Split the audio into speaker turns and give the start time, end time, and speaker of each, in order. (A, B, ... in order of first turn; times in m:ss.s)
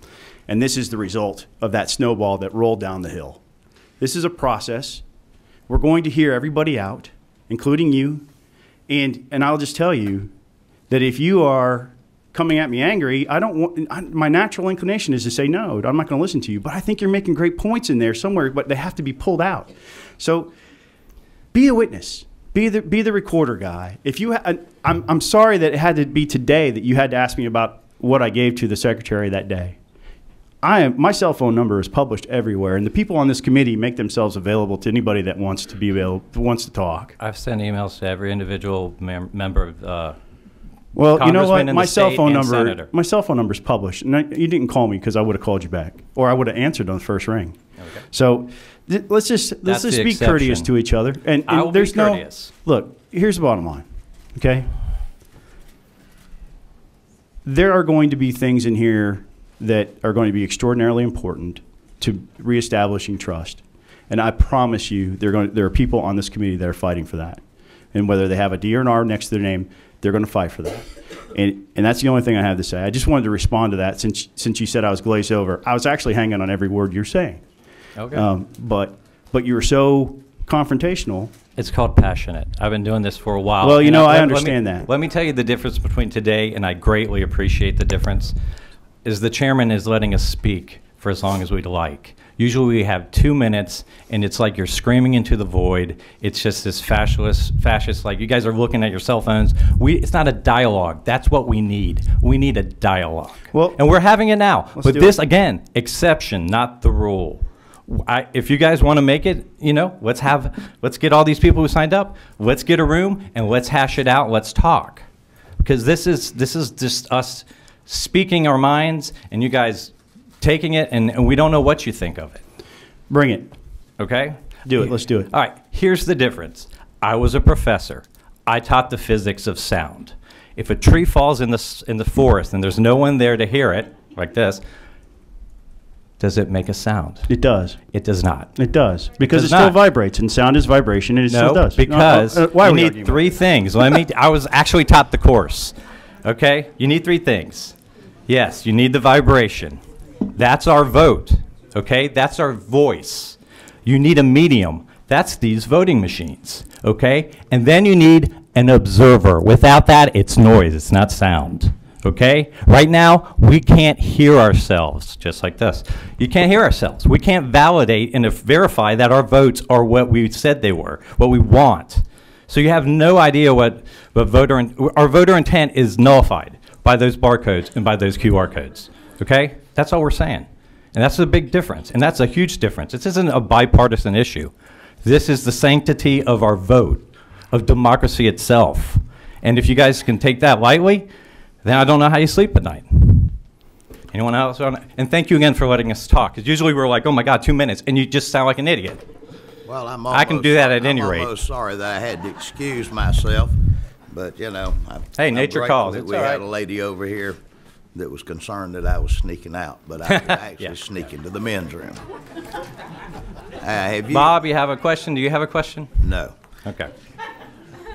0:00.5-0:03.4 A
0:04.0-0:05.0 A
0:05.7-0:08.2 A
0:08.9-0:10.3 A
0:10.9-0:20.5 A
0:21.5-0:29.8 A
0:30.6-0:37.1 A
0:37.2-0:40.2 B
0:40.9-0:47.6 A
0:41.1-0:42.9 B
0:47.8-0:48.0 B
0:48.1-0:54.7 A
0:49.6-0:50.7 B
0:51.4-0:52.5 B
0:57.4-1:07.4 A
1:07.9-1:17.4 A
1:18.0-1:18.3 B
1:18.1-1:21.3 A
1:21.6-1:28.4 B
1:23.6-1:24.9 A
1:29.0-1:55.0 B
1:43.5-1:43.8 A
1:44.8-1:45.2 A
1:55.6-2:02.4 B
2:03.1-2:03.5 A
2:04.0-2:14.6 B
2:04.6-2:05.3 A
2:16.2-2:17.3 B
2:17.3-2:17.8 A
2:17.9-2:18.5 B
2:18.6-2:23.3 A
2:19.2-2:19.8 B
2:21.3-2:27.8 B
2:28.3-3:04.5 B
3:05.0-3:11.1 B
3:11.6-3:13.4 B
3:14.1-3:19.0 B
3:19.6-3:27.4 C
3:20.1-3:21.3 B
3:25.2-3:26.4 B
3:27.9-3:32.0 C
3:30.0-3:30.8 B
3:33.6-3:34.4 C
3:34.1-3:35.9 B
3:36.0-3:36.4 C
3:36.6-3:36.9 B